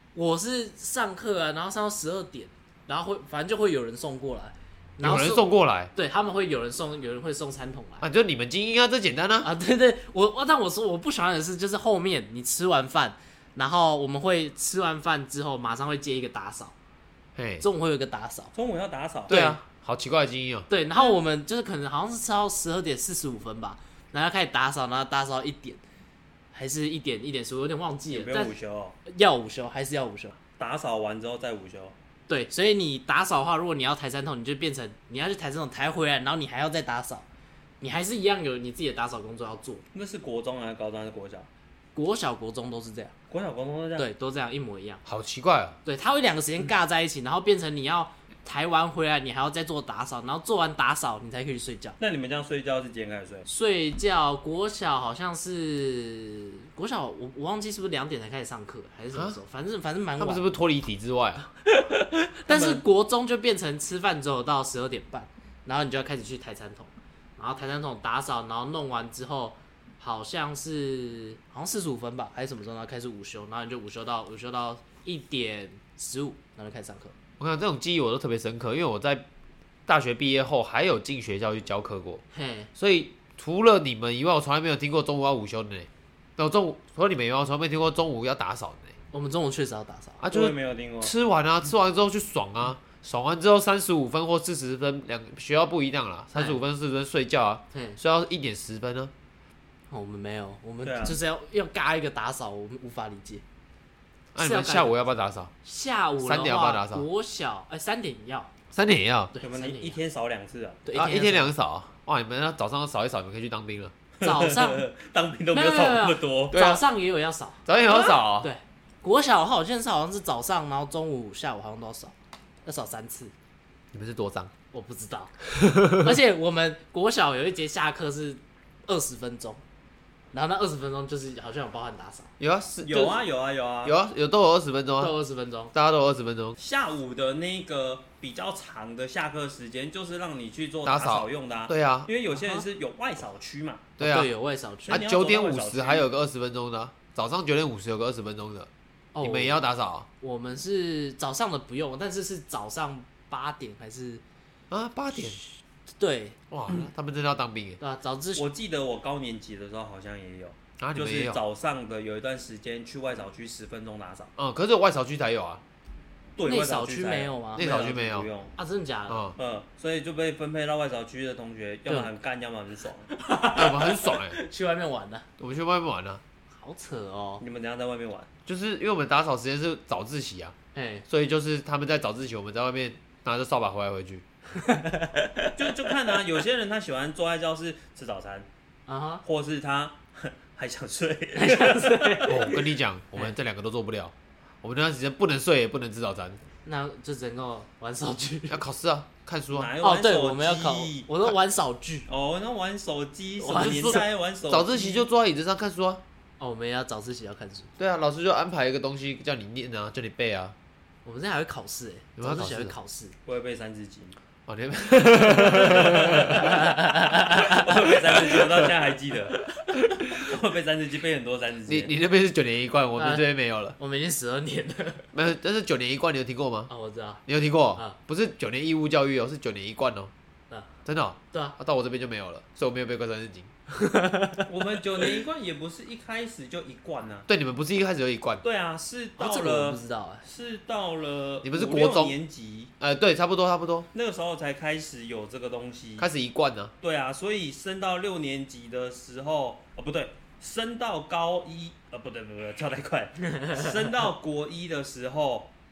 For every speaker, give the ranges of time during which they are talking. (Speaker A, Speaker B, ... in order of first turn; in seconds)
Speaker A: 0.1-8.1, 9.4-16.8, 17.6-18.5, 19.3-19.6, 20.7-25.8, 26.5-28.5, 29.1-30.4, 32.3-37.2, 37.8-39.8, 42.0-43.1, 44.0-45.0, 45.9-52.0, 53.5-60.5, 61.7-77.1, 82.3-82.7, 89.1-90.2, 96.3-96.6, 97.7-98.0, 99.9-103.4, 104.4-105.0, 105.6-108.5, 109.3-110.0, 110.8-111.5, 114.2-114.9, 115.5-123.3, 124.7-125.3, 125.9-129.6, 130.3-132.3, 135.0-135.7, 142.3-142.6, 144.0-145.0, 149.1-149.6, 150.2-154.2, 156.0-156.4, 157.8-158.5, 166.5-167.8, 168.6-169.3, 173.1-175.3, 176.5-177.4, 180.7-181.1, 184.6-185.5, 188.9-189.2, 191.3-192.5, 196.7-198.6, 199.8-202.1, 203.4-204.0, 206.4-207.7, 211.1-213.2, 216.3-217.9, 223.0-223.2, 223.8-225.1, 226.7-227.2, 233.7-234.5, 239.2-240.2, 253.3-253.7
Speaker B: 5.0-5.9, 8.0-9.5, 17.4-17.6, 19.3-20.7, 45.0-45.8, 60.2-61.5, 77.4-79.3, 79.9-82.2, 82.8-88.9, 90.2-99.1, 104.3-105.5, 106.2-107.0, 108.7-109.3, 110.9-113.9, 116.5-116.8, 117.7-118.5, 123.9-124.5, 125.5-126.2, 132.4-133.2, 133.8-135.2, 135.7-136.6, 140.8-142.1, 144.0-144.3, 144.9-148.7, 149.2-150.1, 154.7-155.4, 156.5-157.8, 160.8-161.4, 164.4-165.6, 167.6-168.3, 169.1-169.4, 173.6-174.4, 175.4-176.2, 178.5-180.6, 181.1-184.2, 192.3-196.4, 198.5-199.7, 203.6-206.0, 207.8-210.6, 212.2-212.8, 214.5-216.6, 221.7-223.8, 225.1-226.7, 227.3-230.1, 230.8-233.5, 237.3-238.4, 241.4-242.2, 242.8-243.9, 246.0-246.7
Speaker C: 18.5-19.4, 28.1-29.0, 30.6-31.9, 39.9-41.5, 43.3-44.1, 52.0-53.5, 62.5-62.8, 90.3-91.1, 100.8-101.2, 109.4-110.8, 114.2-116.6, 132.8-134.0, 136.6-143.9, 144.9-146.1, 158.4-164.3, 166.4-168.5, 169.4-173.1, 177.4-178.3, 185.6-188.5, 189.2-192.6, 199.5-201.1, 202.1-205.1, 213.3-214.2, 215.3-216.6, 217.3-219.4, 220.0-221.9, 234.5-237.3, 238.4-242.7, 243.9-246.1, 246.8-255.5